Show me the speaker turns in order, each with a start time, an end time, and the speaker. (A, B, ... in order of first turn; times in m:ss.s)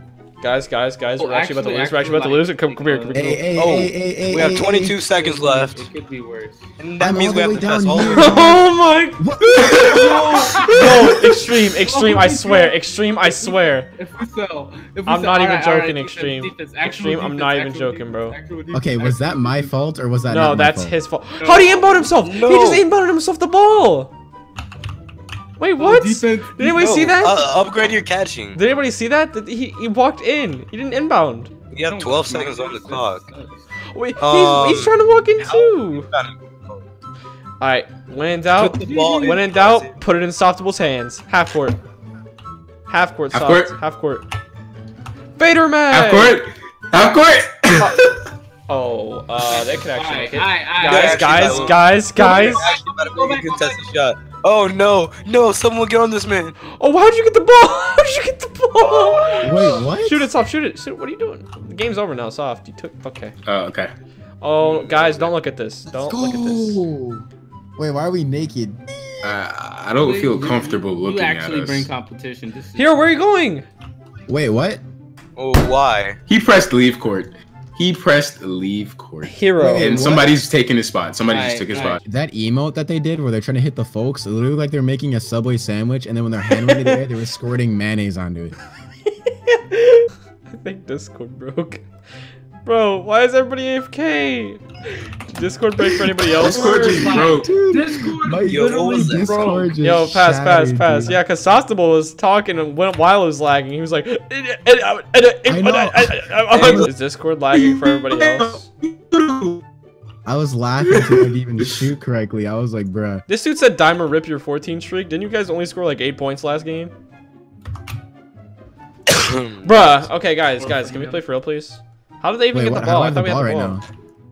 0:00.4-0:03.4 A
0:01.2-0:03.3 B
0:03.1-0:05.0 C
0:03.5-0:05.9 D
0:05.1-0:06.7 B
0:06.8-0:08.4 D
0:07.0-0:08.7 C
0:08.1-0:13.9 A
0:09.2-0:11.1 C
0:09.9-0:11.0 B
0:11.8-0:19.7 B
0:15.1-0:18.4 A
0:18.7-0:21.0 C
0:20.3-0:24.1 A
0:21.4-0:22.1 B
0:22.2-0:22.8 D
0:25.6-0:27.6 A
0:25.8-0:27.0 B
0:26.8-0:28.6 D
0:28.5-0:31.5 A
0:31.7-0:33.2 D
0:31.9-0:33.6 B
0:33.9-0:36.1 A
0:34.2-0:36.8 D
0:37.6-0:41.8 A
0:38.5-0:40.0 D
0:38.8-0:39.4 B
0:42.9-0:44.2 A
0:43.3-0:43.8 E
0:45.4-0:46.4 A
0:45.9-0:48.3 E
0:48.7-0:52.7 A
0:49.4-0:53.9 B
0:50.9-0:56.6 D
0:56.7-1:03.4 A
0:58.8-0:59.8 B
0:59.4-1:00.3 C
1:03.5-1:03.9 E
1:04.4-1:06.8 A
1:04.6-1:05.3 B
1:05.9-1:08.8 C
1:09.2-1:11.9 E
1:10.0-1:12.9 B
1:12.8-1:13.7 A
1:14.3-1:14.8 C
1:15.4-1:16.2 D
1:16.3-1:22.0 E
1:19.3-1:20.3 A
1:19.6-1:20.1 C
1:21.3-1:22.0 B
1:22.1-1:28.6 C
1:26.6-1:27.0 A
1:29.3-1:31.8 A
1:32.6-1:37.1 A
1:36.3-1:39.8 B
1:36.5-1:37.5 E
1:36.9-1:41.2 C
1:38.4-1:39.3 D
1:39.8-1:48.7 A
1:45.5-1:46.9 C
1:47.5-1:49.6 E
1:50.3-1:53.2 C
1:50.8-1:51.3 E
1:53.3-1:56.9 A
1:59.1-2:00.1 D
1:59.6-2:03.8 A
2:00.6-2:01.2 B
2:02.5-2:03.8 C